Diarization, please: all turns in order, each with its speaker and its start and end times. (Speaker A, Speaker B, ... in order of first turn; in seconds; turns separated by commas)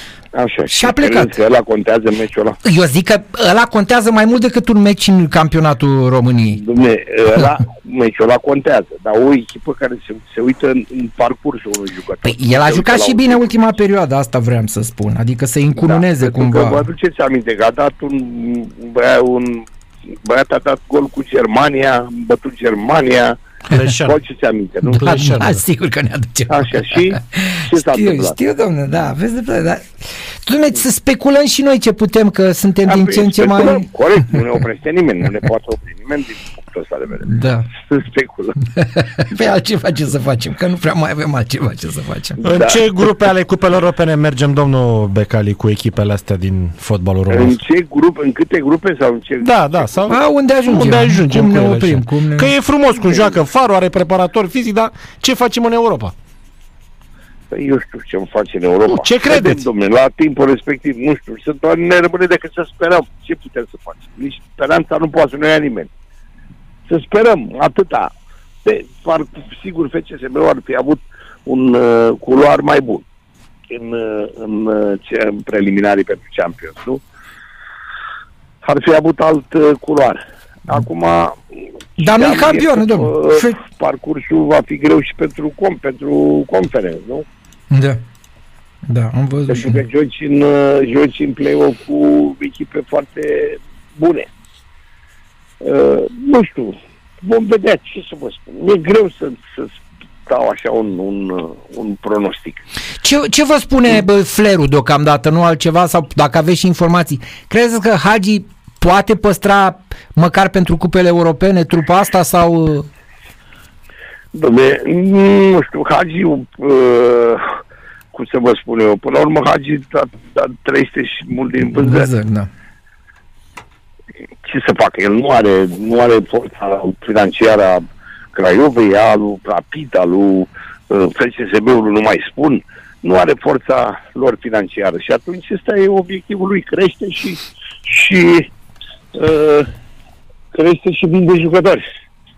Speaker A: 0.3-2.6, Speaker B: 0.7-1.3, Speaker B: 2.6-6.6, Speaker A: 6.6-13.6, Speaker B: 12.2-16.8, Speaker A: 15.8-19.7, Speaker A: 20.2-23.4, Speaker C: 23.7-24.2, Speaker A: 24.0-25.1, Speaker C: 24.9-25.6, Speaker B: 25.0-33.9, Speaker A: 26.5-28.4, Speaker A: 32.9-38.6, Speaker B: 37.3-37.7, Speaker B: 38.8-42.5, Speaker C: 42.4-47.6, Speaker A: 42.5-42.8, Speaker A: 47.3-49.9, Speaker C: 49.4-56.1, Speaker B: 50.1-52.5, Speaker A: 52.9-53.4, Speaker A: 57.5-65.9, Speaker C: 58.9-59.6, Speaker A: 66.9-68.1, Speaker A: 68.7-73.0, Speaker A: 73.7-77.0, Speaker A: 78.6-81.4, Speaker A: 82.0-87.2, Speaker B: 82.0-83.6, Speaker B: 87.7-88.0, Speaker B: 88.9-89.8, Speaker A: 89.5-94.3, Speaker A: 95.6-99.8, Speaker A: 100.3-102.6, Speaker B: 103.0-112.9, Speaker A: 114.3-117.5, Speaker A: 118.1-122.1, Speaker B: 121.7-122.5, Speaker A: 124.5-127.8, Speaker A: 128.3-138.5, Speaker A: 139.2-139.7, Speaker A: 140.5-141.8